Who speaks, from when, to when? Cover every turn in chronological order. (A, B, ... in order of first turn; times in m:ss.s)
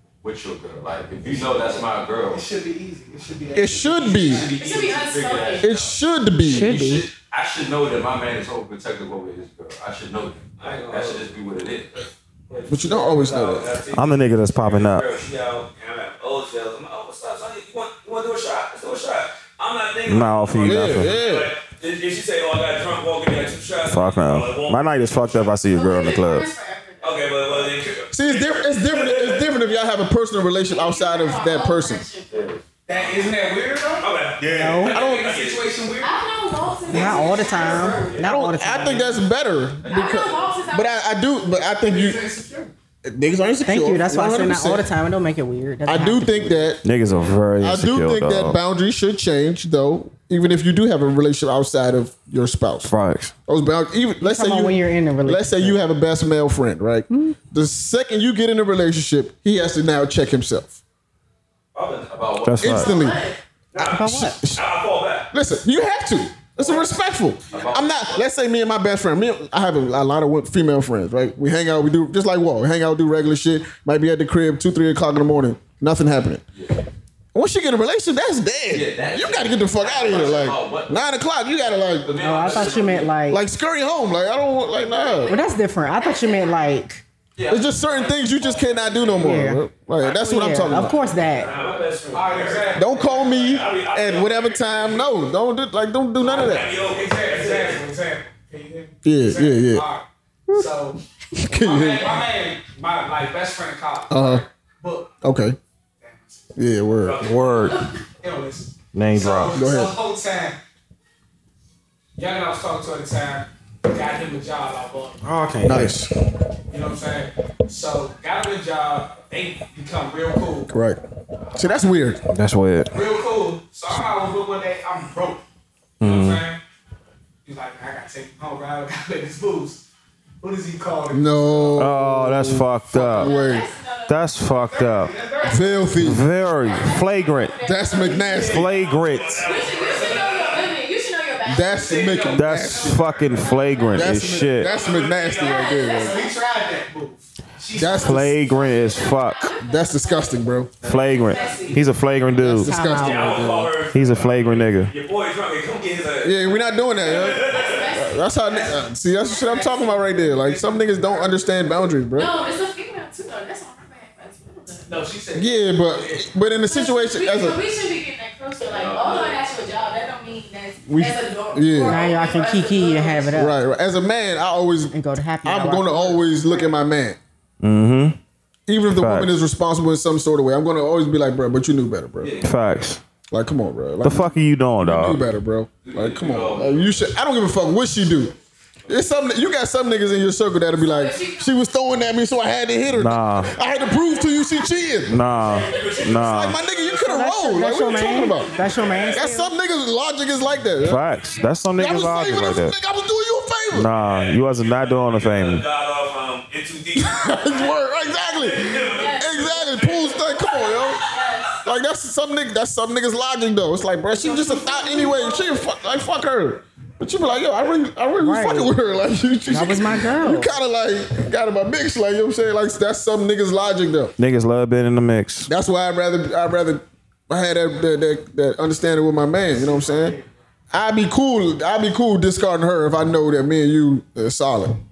0:00.2-0:02.5 A
0:01.7-0:04.5 B
0:03.5-0:04.5 C
0:04.1-0:12.1 A
0:04.5-0:05.7 D
0:05.6-0:06.8 C
0:06.4-0:07.1 E
0:10.6-0:11.3 F
0:12.5-0:25.5 F
0:12.7-0:13.7 C
0:13.9-0:15.0 G
0:20.1-0:21.1 G
0:20.6-0:21.5 C
0:23.8-0:26.5 G
0:25.6-0:27.6 D
0:27.0-0:29.5 F
0:28.1-0:32.0 C
0:29.5-0:29.9 D
0:30.6-0:32.4 D
0:32.3-0:33.2 A
0:32.9-0:34.1 B
0:34.0-0:35.7 F
0:34.4-0:34.8 G
0:34.4-0:35.0 E
0:34.9-0:35.3 A
0:34.9-0:36.2 B
0:35.0-0:35.3 C
0:36.0-0:38.2 D
0:36.9-0:39.1 E
0:36.9-0:38.2 B
0:37.7-0:38.1 F
0:38.2-0:42.2 C
0:39.8-0:40.6 A
0:39.9-0:41.0 D
0:41.8-0:42.7 B
0:43.0-0:44.9 C
0:43.6-0:46.6 E
0:45.9-0:46.9 C
0:46.8-0:48.6 G
0:47.6-0:52.9 C
0:52.9-0:53.3 G
0:53.5-1:00.8 C
0:54.2-0:55.8 E
1:01.8-1:02.3 F
1:02.1-1:02.8 A
1:02.4-1:02.9 G
1:02.6-1:03.3 C
1:02.6-1:03.4 D
1:03.7-1:05.3 F
1:03.8-1:04.4 E
1:04.0-1:04.6 C
1:05.3-1:16.4 C
1:07.5-1:08.2 A
1:17.3-1:22.1 C
1:18.7-1:21.0 A
1:22.0-1:23.1 A
1:22.2-1:23.4 E
1:22.2-1:23.0 F
1:23.3-1:25.4 C
1:24.8-1:26.8 D
1:25.3-1:27.0 E
1:27.4-1:29.4 A
1:27.5-1:31.0 C
1:29.2-1:31.5 E
1:31.2-1:35.3 F
1:31.4-1:31.8 A
1:32.1-1:33.4 B
1:32.8-1:36.7 C
1:36.2-1:37.8 F
1:36.8-1:41.0 B
1:39.0-1:39.9 C
1:41.4-1:42.3 C
1:41.5-1:45.2 B
1:44.1-1:44.4 C
1:45.2-1:45.6 C
1:46.0-1:46.5 B
1:46.6-1:47.2 C
1:47.0-1:47.8 F
1:47.2-1:47.8 G
1:47.6-1:48.0 D
1:48.2-1:50.6 B
1:48.9-1:49.6 G
1:49.5-1:49.9 C
1:52.2-1:55.2 B
1:55.2-1:56.0 G
1:55.6-1:56.1 C
1:56.7-2:00.7 B
2:00.7-2:01.0 C
2:01.5-2:02.0 B
2:01.6-2:02.2 C
2:02.3-2:03.0 G
2:02.9-2:05.4 B
2:06.0-2:06.4 G
2:06.0-2:06.6 B
2:07.4-2:09.8 B
2:10.4-2:11.9 B
2:11.1-2:13.7 C
2:11.8-2:13.3 G
2:13.1-2:14.5 D
2:14.1-2:15.1 G
2:14.6-2:16.0 B
2:15.4-2:15.7 D
2:15.4-2:16.3 C
2:16.0-2:17.6 G
2:16.4-2:18.7 D
2:17.6-2:18.7 C
2:18.4-2:19.5 G
2:18.5-2:20.7 F
2:19.4-2:22.3 D
2:19.8-2:20.5 B
2:21.4-2:23.0 C
2:21.7-2:23.7 B
2:22.3-2:24.7 G
2:23.3-2:26.5 D
2:23.9-2:26.2 C
2:24.6-2:25.8 F
2:25.9-2:29.0 B
2:27.8-2:28.4 C
2:28.0-2:29.5 G
2:28.4-2:31.9 D
2:29.6-2:30.7 C
2:30.8-2:32.7 G
2:32.3-2:33.8 C
2:32.6-2:33.5 E
2:32.9-2:37.9 F
2:33.9-2:34.9 G
2:36.2-2:42.3 C
2:37.3-2:40.1 D
2:39.4-2:41.6 B
2:42.1-2:44.9 D
2:44.9-2:46.3 B
2:45.3-2:47.6 C
2:46.6-2:53.5 D
2:48.6-2:49.4 A
2:50.9-2:52.0 C
2:51.8-2:53.6 E
2:53.4-2:57.2 C
2:54.9-2:56.3 E
2:57.6-2:58.2 G
2:58.7-3:02.4 C
2:59.0-2:59.4 G
3:02.2-3:02.8 A
3:02.4-3:03.0 G
3:03.3-3:08.3 C
3:04.0-3:05.2 G
3:05.8-3:07.0 A
3:08.9-3:15.2 C
3:10.8-3:11.5 D
3:12.9-3:13.5 G
3:13.8-3:14.7 D
3:15.1-3:16.6 G
3:15.3-3:16.8 F
3:15.4-3:16.2 D
3:16.2-3:18.5 C
3:16.9-3:19.5 E
3:18.1-3:19.1 D
3:19.1-3:21.0 C
3:20.8-3:22.8 G
3:21.8-3:23.9 C
3:23.7-3:25.6 G
3:24.0-3:27.7 F
3:27.0-3:31.1 C
3:28.3-3:31.2 F
3:28.8-3:31.6 D
3:31.6-3:44.1 C
3:34.2-3:35.6 D
3:38.2-3:38.7 E
3:39.5-3:40.5 E
3:44.2-3:45.5 G
3:45.5-3:50.2 C
3:49.6-3:50.2 B
3:50.7-3:54.8 C